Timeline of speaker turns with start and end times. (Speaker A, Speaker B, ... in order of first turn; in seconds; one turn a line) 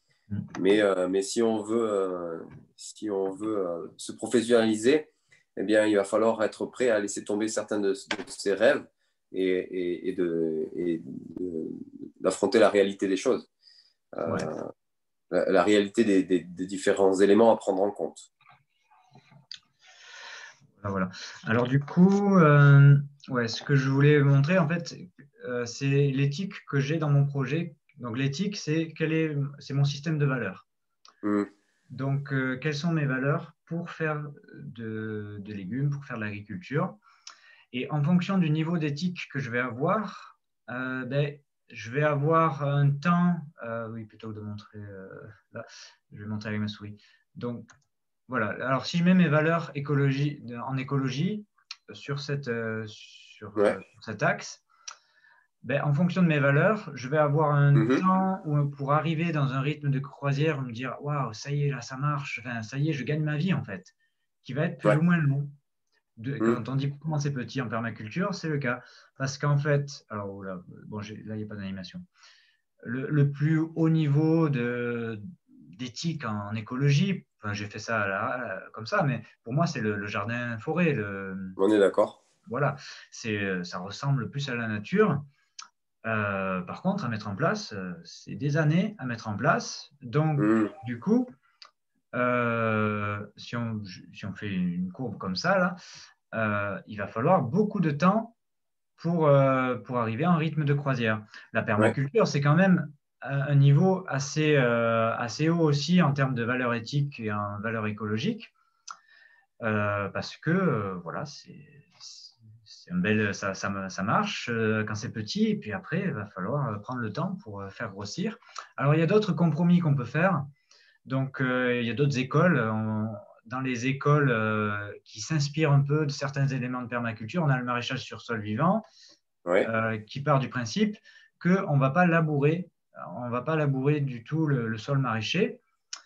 Speaker A: 0.6-13.5
Speaker A: 14.2-14.7
Speaker A: 15.3-18.3
Speaker B: 20.8-30.7
Speaker A: 31.2-31.5
Speaker B: 31.9-37.0
Speaker B: 37.7-47.7
Speaker B: 48.3-54.6
Speaker B: 55.6-65.5
Speaker A: 57.7-58.0
Speaker B: 66.2-72.0
Speaker B: 72.8-81.6
Speaker A: 81.6-82.2
Speaker B: 82.5-85.2
Speaker B: 86.0-91.3
Speaker A: 90.4-90.8
Speaker B: 92.1-95.8
Speaker B: 96.3-98.3
Speaker B: 99.0-108.5
Speaker B: 109.6-120.5
Speaker B: 121.0-128.8
Speaker B: 129.6-135.6